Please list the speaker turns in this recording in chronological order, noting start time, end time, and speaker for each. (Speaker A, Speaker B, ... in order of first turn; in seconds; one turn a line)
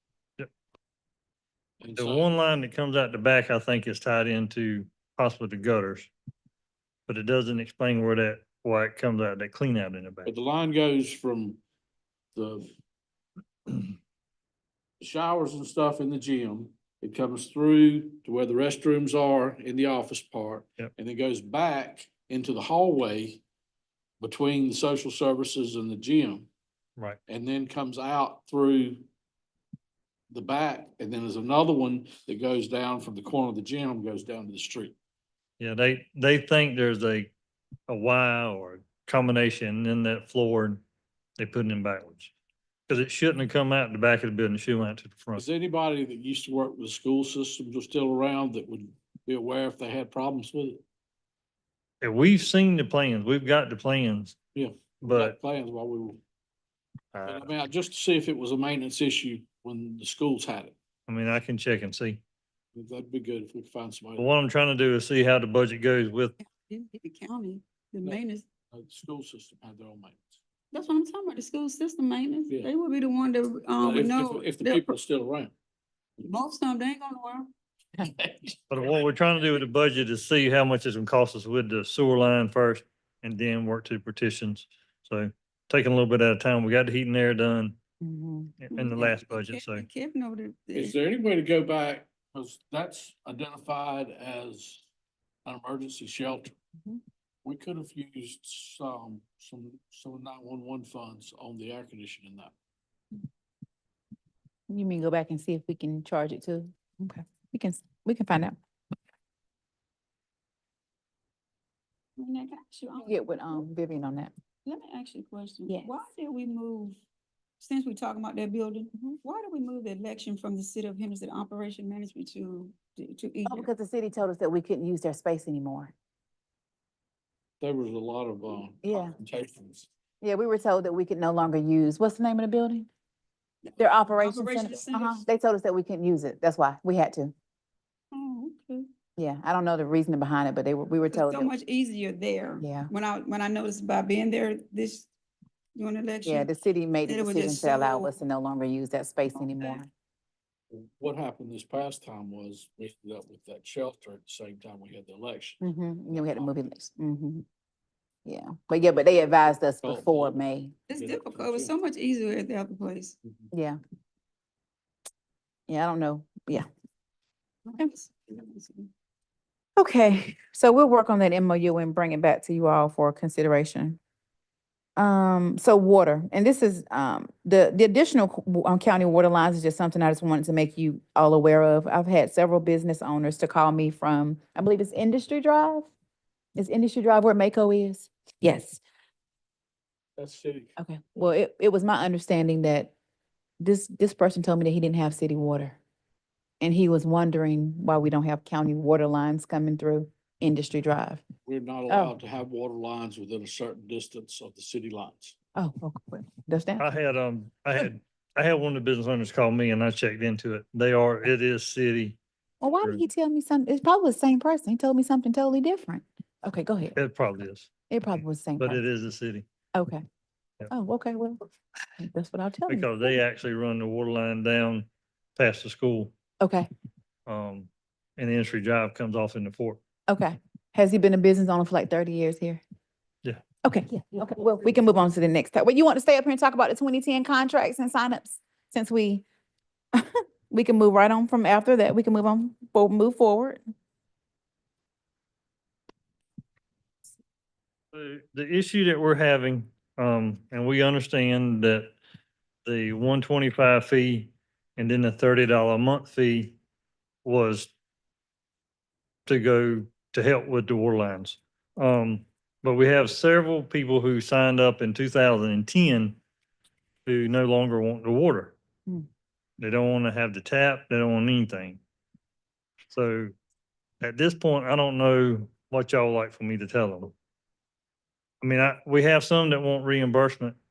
Speaker A: 1.8-2.3
Speaker B: 2.0-6.1
Speaker B: 7.1-10.3
Speaker A: 10.3-11.6
Speaker A: 12.3-12.8
Speaker A: 15.0-23.4
Speaker A: 24.2-26.5
Speaker A: 27.3-29.1
Speaker A: 30.3-35.0
Speaker B: 35.6-37.3
Speaker B: 37.9-40.8
Speaker B: 41.4-42.3
Speaker B: 42.9-45.5
Speaker A: 45.4-50.8
Speaker B: 52.0-54.4
Speaker A: 54.5-56.2
Speaker B: 55.0-55.4
Speaker B: 57.1-57.5
Speaker A: 57.3-60.8
Speaker B: 61.1-62.2
Speaker A: 62.7-64.3
Speaker B: 64.2-66.4
Speaker C: 66.4-68.5
Speaker A: 68.0-70.4
Speaker C: 70.7-74.9
Speaker A: 73.8-75.5
Speaker C: 76.2-77.5
Speaker A: 78.0-78.5
Speaker B: 78.7-87.8
Speaker D: 88.0-89.1
Speaker B: 88.6-89.9
Speaker C: 88.7-90.9
Speaker A: 90.7-94.9
Speaker A: 95.5-96.5
Speaker A: 97.4-102.5
Speaker D: 104.7-108.6
Speaker C: 112.2-113.6
Speaker D: 113.0-114.3
Speaker C: 114.7-117.0
Speaker C: 117.6-123.7
Speaker D: 123.5-125.9
Speaker A: 127.6-129.9
Speaker D: 128.8-129.2
Speaker D: 130.2-132.9
Speaker C: 133.7-135.2
Speaker D: 133.8-137.3
Speaker C: 138.1-138.9
Speaker D: 139.2-141.5
Speaker C: 141.1-145.1
Speaker D: 142.6-142.9
Speaker C: 145.8-146.5
Speaker D: 146.2-149.9
Speaker C: 147.1-148.1
Speaker C: 149.4-149.8
Speaker A: 150.7-156.7
Speaker D: 155.6-157.4
Speaker D: 158.2-160.8
Speaker A: 159.8-160.4
Speaker C: 160.9-163.2
Speaker A: 160.9-161.7
Speaker A: 163.2-163.5
Speaker D: 163.5-163.8
Speaker D: 165.7-166.7
Speaker C: 167.7-168.9
Speaker D: 169.8-174.0
Speaker D: 175.0-185.9
Speaker D: 186.6-188.8
Speaker A: 190.2-190.7
Speaker D: 190.8-192.9
Speaker D: 193.6-195.8
Speaker D: 196.6-201.2
Speaker A: 201.4-205.3
Speaker D: 201.9-202.2
Speaker D: 205.6-206.8
Speaker B: 206.8-212.2
Speaker D: 212.6-217.0
Speaker B: 217.0-217.7
Speaker D: 217.9-218.8
Speaker B: 218.6-219.4
Speaker D: 219.7-220.0
Speaker D: 220.7-221.5
Speaker D: 222.0-223.1
Speaker B: 222.7-226.1
Speaker D: 226.4-226.7
Speaker B: 227.3-229.8
Speaker D: 230.1-232.6
Speaker D: 233.6-239.2
Speaker D: 239.9-243.6
Speaker B: 247.9-251.9
Speaker B: 252.7-256.6
Speaker B: 257.2-257.7
Speaker B: 259.3-266.2
Speaker B: 267.1-268.6
Speaker B: 269.6-271.8
Speaker B: 272.9-273.3
Speaker B: 274.0-277.1
Speaker B: 278.4-280.6